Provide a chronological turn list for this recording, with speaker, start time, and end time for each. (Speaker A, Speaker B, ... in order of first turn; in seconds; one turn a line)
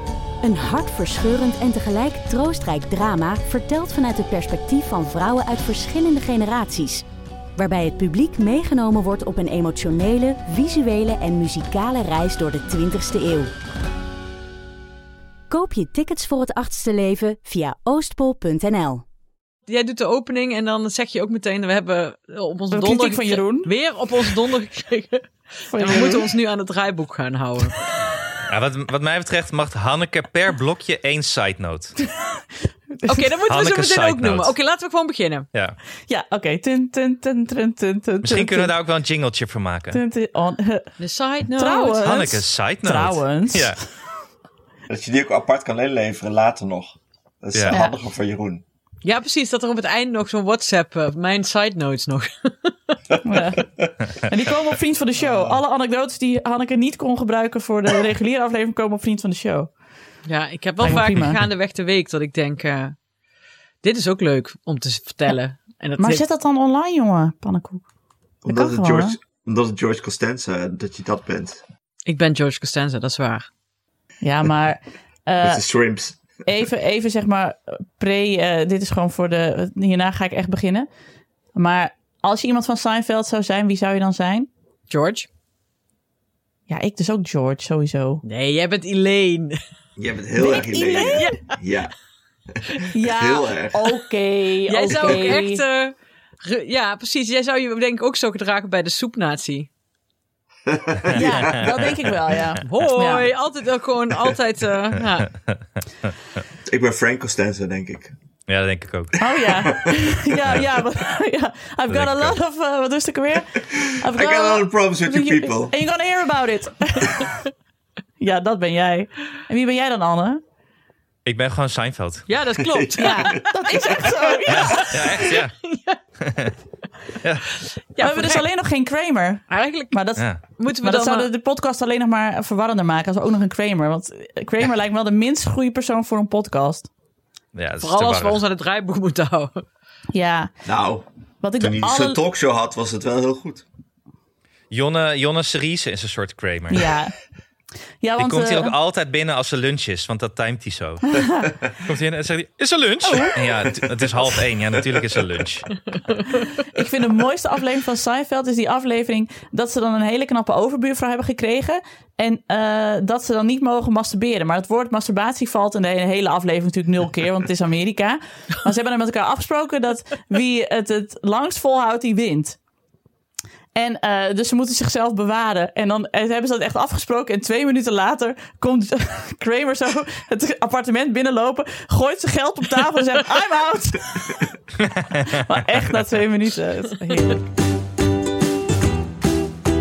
Speaker A: 0.4-7.0
Speaker A: 7.6-13.5
Speaker A: 15.5-19.0
Speaker B: 19.7-27.8
Speaker C: 22.7-23.7
Speaker C: 25.7-26.3
Speaker D: 28.5-32.0
Speaker C: 32.9-33.3
Speaker B: 33.1-35.5
Speaker D: 33.5-34.5
Speaker C: 36.1-38.7
Speaker D: 38.2-40.0
Speaker C: 39.9-40.9
Speaker B: 41.0-42.1
Speaker C: 41.5-43.8
Speaker D: 42.0-43.8
Speaker E: 44.9-48.6
Speaker C: 47.7-48.0
Speaker B: 49.0-52.7
Speaker C: 53.2-59.7
Speaker E: 53.6-53.9
Speaker E: 55.2-55.6
Speaker B: 60.2-63.0
Speaker C: 60.8-61.4
Speaker D: 60.9-61.2
Speaker B: 63.8-66.2
Speaker C: 66.0-67.8
Speaker E: 68.4-71.6
Speaker C: 68.5-69.2
Speaker B: 72.0-73.5
Speaker C: 74.2-75.6
Speaker E: 75.4-76.4
Speaker C: 76.4-80.9
Speaker C: 81.5-84.5
Speaker B: 84.9-85.3
Speaker C: 86.7-88.2
Speaker B: 88.2-89.6
Speaker E: 90.0-91.9
Speaker C: 90.4-91.3
Speaker B: 90.7-91.5
Speaker E: 92.5-93.9
Speaker C: 92.9-95.6
Speaker B: 94.7-99.7
Speaker E: 100.7-101.9
Speaker D: 101.0-101.7
Speaker C: 101.1-103.3
Speaker B: 102.7-105.3
Speaker D: 105.5-106.4
Speaker E: 106.7-108.1
Speaker D: 108.5-109.2
Speaker C: 109.2-117.3
Speaker E: 109.4-110.1
Speaker D: 111.9-112.3
Speaker E: 113.7-115.8
Speaker C: 118.2-120.4
Speaker D: 121.2-122.3
Speaker B: 122.3-126.0
Speaker E: 122.6-123.5
Speaker C: 123.0-125.0
Speaker D: 124.5-125.5
Speaker D: 126.2-126.5
Speaker D: 127.2-127.5
Speaker B: 127.9-128.5
Speaker C: 128.0-136.9
Speaker B: 129.5-130.0
Speaker B: 130.6-131.3
Speaker D: 137.5-138.4
Speaker B: 137.8-139.6
Speaker C: 140.1-140.5
Speaker E: 140.6-141.0
Speaker C: 141.4-142.2
Speaker E: 141.6-143.6
Speaker D: 144.7-147.0
Speaker C: 146.7-147.1
Speaker C: 148.0-148.7
Speaker D: 148.2-151.2
Speaker C: 151.1-151.4
Speaker D: 151.7-155.8
Speaker C: 153.0-153.3
Speaker E: 153.4-155.3
Speaker C: 156.7-172.6
Speaker C: 173.7-184.5
Speaker D: 184.8-185.4
Speaker C: 185.2-187.4